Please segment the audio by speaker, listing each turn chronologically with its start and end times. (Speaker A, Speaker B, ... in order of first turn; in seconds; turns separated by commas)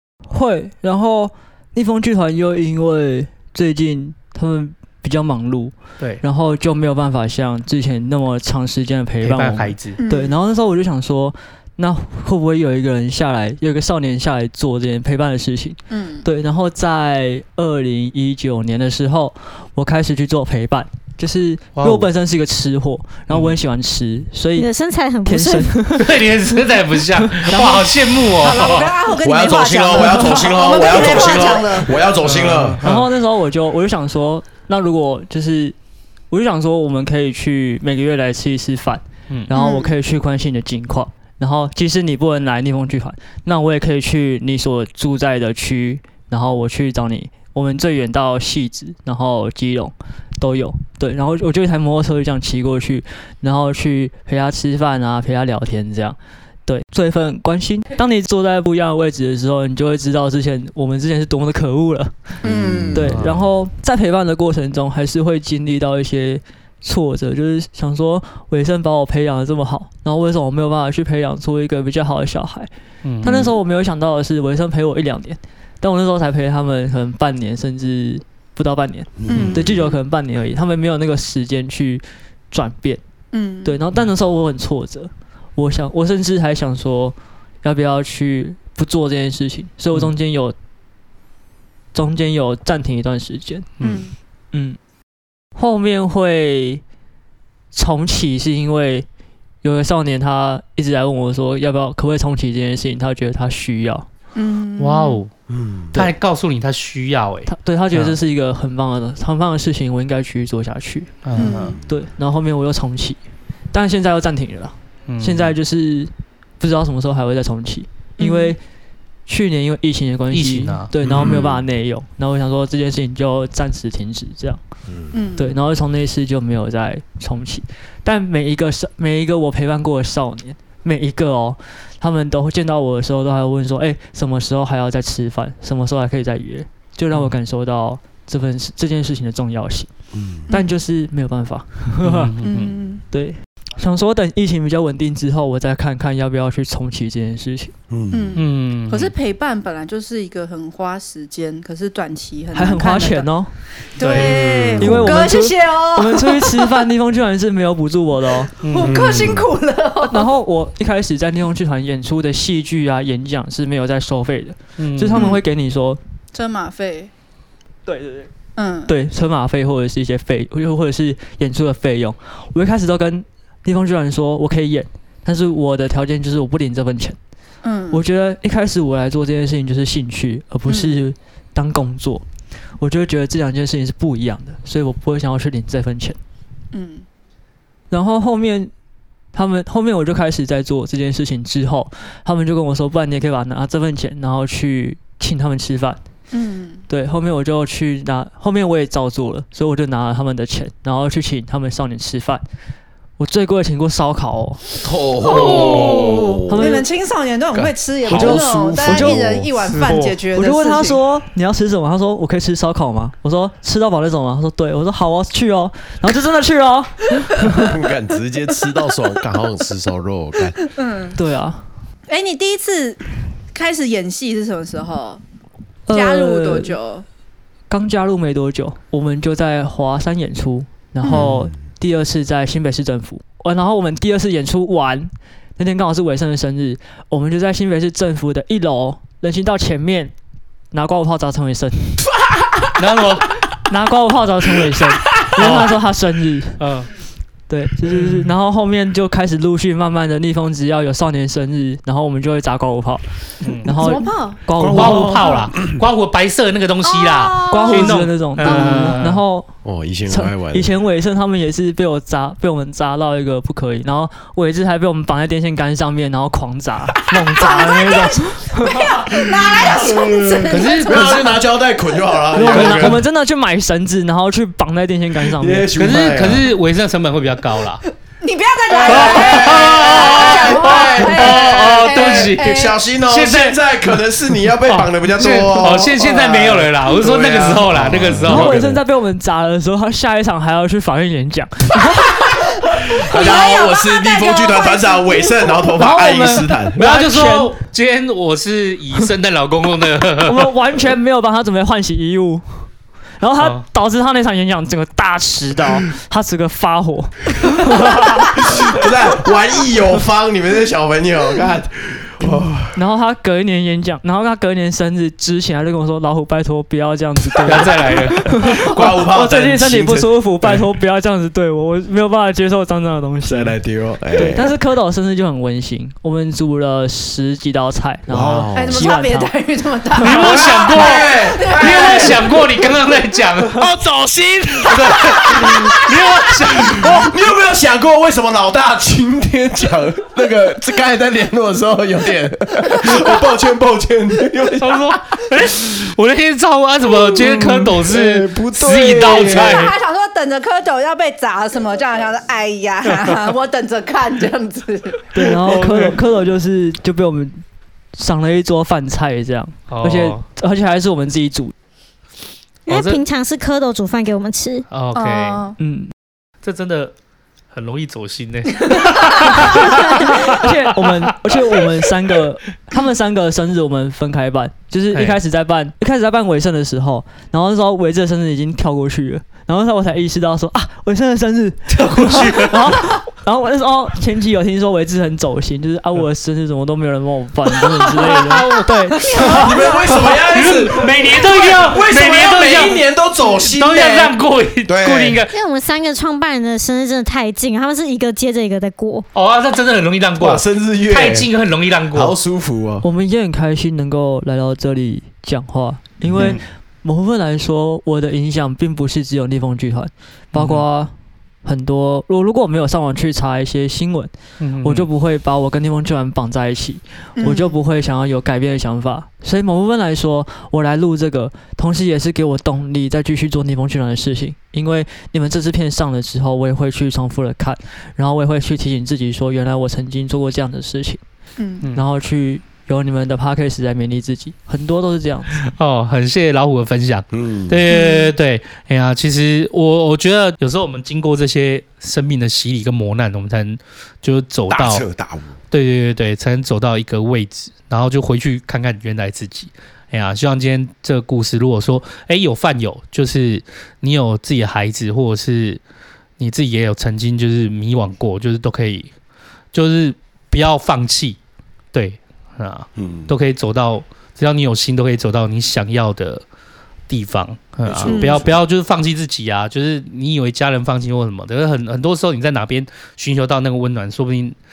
Speaker A: 0.3-24.7, Speaker B: 9.2-10.0, Speaker C: 10.0-10.4, Speaker C: 15.9-16.3, Speaker B: 21.8-22.1, Speaker B: 23.3-23.6, Speaker D: 24.6-26.0, Speaker A: 25.2-26.2, Speaker B: 26.0-29.0, Speaker A: 27.3-27.9, Speaker C: 28.3-32.0, Speaker E: 29.2-32.8, Speaker B: 32.2-33.1, Speaker A: 32.8-35.8, Speaker A: 36.3-62.1, Speaker C: 39.5-40.0, Speaker E: 62.4-63.2, Speaker C: 62.5-62.9, Speaker A: 62.9-72.7, Speaker B: 63.1-63.4, Speaker B: 73.0-73.5, Speaker A: 73.2-83.0, Speaker E: 79.2-79.9, Speaker C: 79.3-79.7, Speaker C: 83.3-83.8, Speaker A: 83.7-90.5, Speaker A: 91.9-93.7, Speaker B: 93.8-94.1, Speaker C: 93.8-94.1, Speaker A: 94.5-94.8, Speaker A: 95.6-96.8, Speaker A: 97.7-99.1, Speaker A: 99.6-104.1, Speaker C: 104.3-105.2, Speaker B: 104.8-105.3, Speaker E: 105.5-106.1, Speaker B: 105.9-108.2, Speaker A: 107.5-111.1, Speaker B: 111.2-111.8, Speaker C: 111.4-111.8, Speaker E: 111.5-111.8, Speaker A: 111.9-113.2, Speaker A: 113.7-118.6, Speaker B: 115.1-115.5, Speaker C: 118.2-118.6, Speaker A: 119.3-124.6, Speaker B: 120.3-120.9, Speaker E: 121.0-121.6, Speaker C: 125.1-125.6, Speaker A: 125.4-139.9, Speaker E: 140.1-140.5, Speaker A: 140.5-142.3, Speaker B: 142.0-142.8, Speaker C: 142.4-143.0, Speaker A: 143.1-147.7, Speaker E: 147.9-148.4, Speaker C: 148.1-153.3, Speaker B: 148.4-149.1, Speaker A: 152.5-153.5, Speaker C: 154.0-156.8, Speaker B: 154.0-154.4, Speaker E: 154.2-155.2, Speaker A: 154.8-158.5, Speaker B: 158.6-159.2, Speaker C: 158.6-160.3, Speaker E: 158.8-159.5, Speaker A: 160.1-166.0, Speaker B: 164.8-165.3, Speaker C: 165.1-165.4, Speaker C: 166.3-167.1, Speaker A: 167.9-168.3, Speaker C: 168.6-168.9, Speaker A: 168.9-177.2, Speaker C: 177.6-178.0, Speaker A: 177.9-182.2, Speaker C: 180.7-181.0, Speaker A: 182.8-186.2, Speaker C: 186.7-187.1, Speaker A: 187.9-188.7, Speaker A: 189.3-196.0, Speaker C: 196.3-196.8, Speaker A: 196.9-202.4, Speaker A: 203.2-204.6, Speaker E: 204.8-206.8, Speaker C: 205.3-211.0, Speaker B: 205.3-206.1, Speaker A: 206.5-206.9, Speaker E: 207.5-209.5, Speaker A: 208.1-209.3, Speaker B: 209.7-210.2, Speaker A: 210.3-217.7, Speaker E: 217.4-220.6, Speaker C: 220.6-221.2, Speaker A: 221.2-221.6, Speaker C: 222.1-225.2, Speaker A: 225.9-226.8, Speaker C: 225.9-227.1, Speaker A: 227.7-240.1, Speaker C: 231.0-231.3, Speaker E: 231.1-231.5, Speaker A: 240.7-242.0, Speaker B: 242.8-243.4, Speaker A: 243.7-246.6, Speaker B: 245.3-245.8, Speaker B: 246.6-246.9, Speaker A: 247.5-253.1, Speaker B: 247.9-248.3, Speaker B: 253.4-253.8, Speaker A: 253.6-255.2, Speaker C: 253.7-254.4, Speaker E: 254.6-255.8, Speaker B: 254.7-259.2, Speaker C: 256.9-259.0, Speaker A: 257.5-259.5, Speaker E: 259.6-260.7, Speaker A: 260.1-268.9, Speaker C: 267.4-271.4, Speaker E: 269.0-273.0, Speaker B: 270.5-271.4, Speaker A: 272.3-275.8, Speaker B: 272.4-273.0, Speaker E: 275.2-276.5, Speaker B: 275.8-277.9, Speaker C: 278.2-282.7, Speaker E: 278.7-288.8, Speaker B: 278.8-283.6, Speaker B: 284.4-288.6, Speaker A: 288.2-292.4, Speaker E: 292.7-296.8, Speaker C: 292.9-295.6, Speaker A: 295.8-297.6, Speaker B: 296.8-300.5, Speaker A: 300.2-302.4, Speaker A: 303.2-308.4, Speaker E: 308.4-312.7, Speaker A: 312.7-323.6, Speaker B: 317.4-318.6, Speaker E: 318.4-320.2, Speaker E: 323.2-324.5, Speaker A: 324.1-329.3, Speaker E: 328.1-328.9, Speaker C: 328.5-332.6, Speaker B: 330.0-333.7, Speaker E: 330.1-332.3, Speaker E: 333.4-345.2, Speaker B: 334.8-337.1, Speaker B: 344.6-349.8, Speaker E: 346.9-349.7, Speaker C: 349.0-355.0, Speaker A: 355.1-357.4, Speaker B: 355.5-355.9, Speaker A: 357.9-361.5, Speaker B: 359.7-360.2, Speaker D: 362.7-364.6, Speaker B: 362.7-363.0, Speaker B: 364.7-365.5, Speaker C: 364.9-365.6, Speaker A: 365.6-365.9, Speaker B: 366.4-366.9, Speaker B: 367.5-370.9, Speaker A: 369.3-389.4, Speaker B: 374.9-375.2, Speaker B: 381.7-382.9, Speaker B: 388.0-389.1, Speaker C: 389.0-390.2, Speaker E: 389.1-395.2, Speaker B: 390.3-392.8, Speaker B: 393.5-395.4, Speaker D: 395.3-399.1, Speaker B: 399.1-402.2, Speaker E: 400.2-401.3, Speaker E: 401.9-402.9, Speaker A: 402.8-410.9, Speaker E: 406.0-406.4, Speaker B: 406.2-406.4, Speaker B: 410.3-410.6, Speaker A: 411.4-431.0, Speaker B: 414.4-414.9, Speaker C: 417.2-417.5, Speaker C: 431.4-431.7, Speaker A: 431.7-435.4, Speaker B: 435.4-444.9, Speaker E: 437.1-437.7, Speaker C: 437.7-438.1, Speaker E: 444.5-445.4, Speaker B: 445.5-455.6, Speaker B: 456.2-458.9, Speaker B: 459.5-461.2, Speaker B: 461.7-466.2, Speaker E: 462.8-463.1, Speaker B: 466.9-474.4, Speaker E: 467.7-468.4, Speaker C: 467.9-468.3